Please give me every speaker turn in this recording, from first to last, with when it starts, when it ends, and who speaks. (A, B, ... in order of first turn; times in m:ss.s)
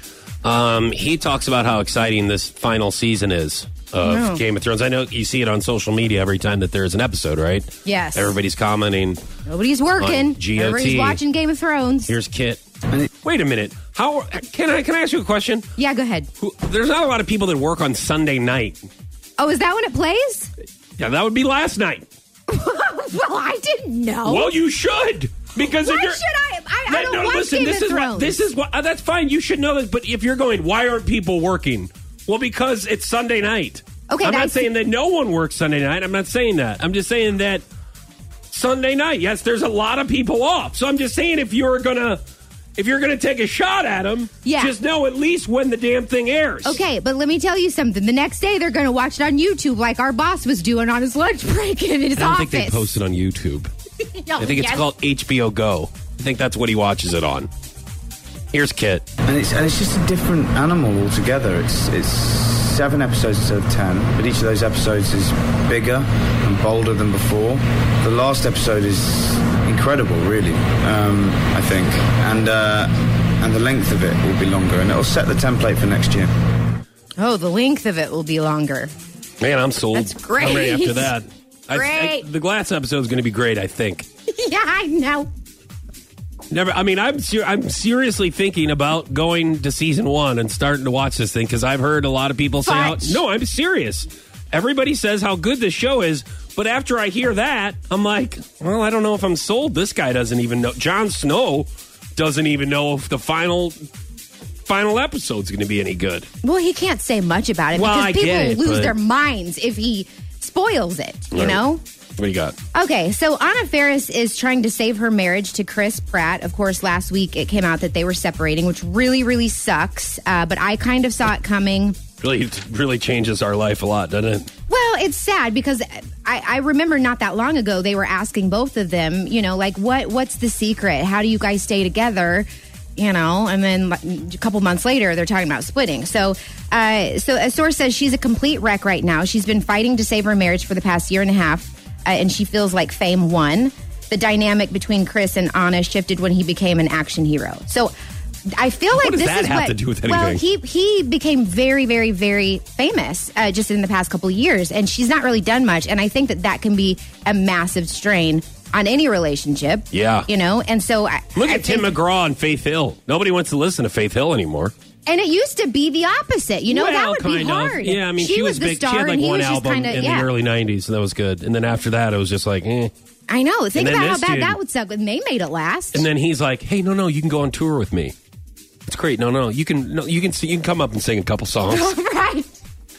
0:00.4-0:09.2 A
0:04.0-0:04.4 B
0:07.8-0:08.4 B
0:09.5-0:12.1 B
0:10.0-0:11.2 A
0:12.1-0:12.6 A
0:13.2-0:15.7 A
0:15.8-0:16.3 B
0:16.4-0:18.8 A
0:19.4-0:20.5 B
0:21.0-0:22.1 A
0:22.5-0:24.6 B
0:24.2-0:26.2 A
0:25.6-0:28.4 B
0:26.9-0:37.6 A
0:34.1-0:34.7 B
0:38.5-0:42.2 A
0:42.8-0:46.8 A
0:44.4-0:44.7 B
0:46.6-0:52.9 B
0:52.2-0:53.7 A
0:54.2-0:54.9 B
0:54.4-0:57.5 A
0:58.5-0:59.0 A
0:59.2-1:16.3 C
1:17.2-1:18.9 B
1:19.4-1:24.1 A
1:19.9-1:21.1 B
1:21.7-1:22.2 B
1:24.3-1:25.3 B
1:26.5-1:43.8 A
1:32.6-1:33.2 B
1:44.7-1:46.3 A
1:46.4-1:51.8 B
1:47.8-1:49.0 A
1:51.3-1:51.6 A
1:52.2-1:52.6 A
1:52.7-2:02.0 B
2:02.2-2:04.5 A
2:04.7-2:27.9 B
2:28.6-2:41.9 B
2:28.9-2:30.4 A
2:39.9-2:40.3 A
2:41.3-2:44.7 A
2:45.1-2:50.3 B
2:46.7-2:52.9 A
2:53.3-2:56.1 B
2:53.8-2:54.6 A
2:55.9-2:58.1 A
2:58.8-3:02.0 A
3:01.6-3:02.5 B